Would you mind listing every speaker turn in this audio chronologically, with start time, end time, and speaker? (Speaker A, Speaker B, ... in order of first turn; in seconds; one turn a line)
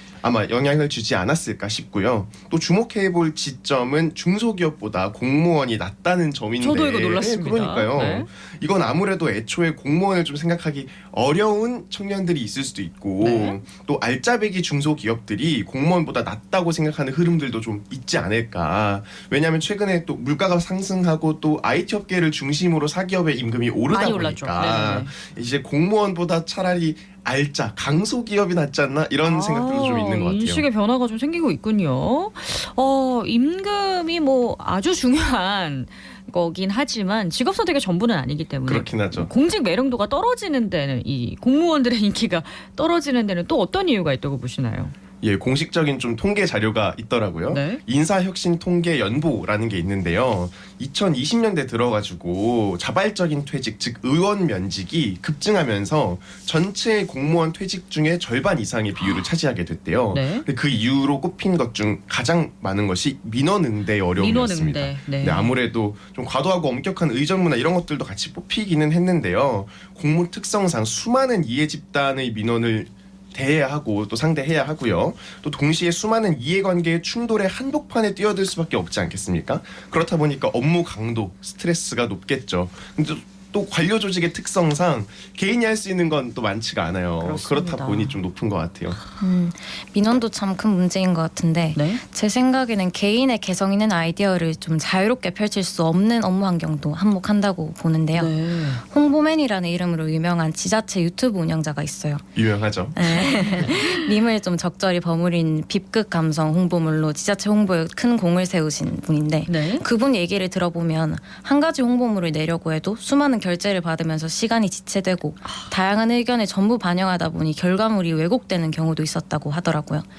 Speaker A: 0.2-30.6
Speaker B: 6.6-8.3
Speaker B: 13.2-13.6
Speaker B: 23.9-25.1
Speaker B: 29.2-44.9
Speaker A: 38.6-39.3
Speaker A: 45.2-89.0
Speaker B: 47.5-47.8
Speaker B: 60.1-60.5
Speaker B: 64.2-65.5
Speaker B: 87.2-88.2
Speaker C: 89.2-102.2
Speaker B: 91.8-92.0
Speaker B: 98.1-98.8
Speaker A: 102.3-103.0
Speaker C: 102.9-120.0
Speaker B: 103.3-103.9
Speaker B: 109.5-109.8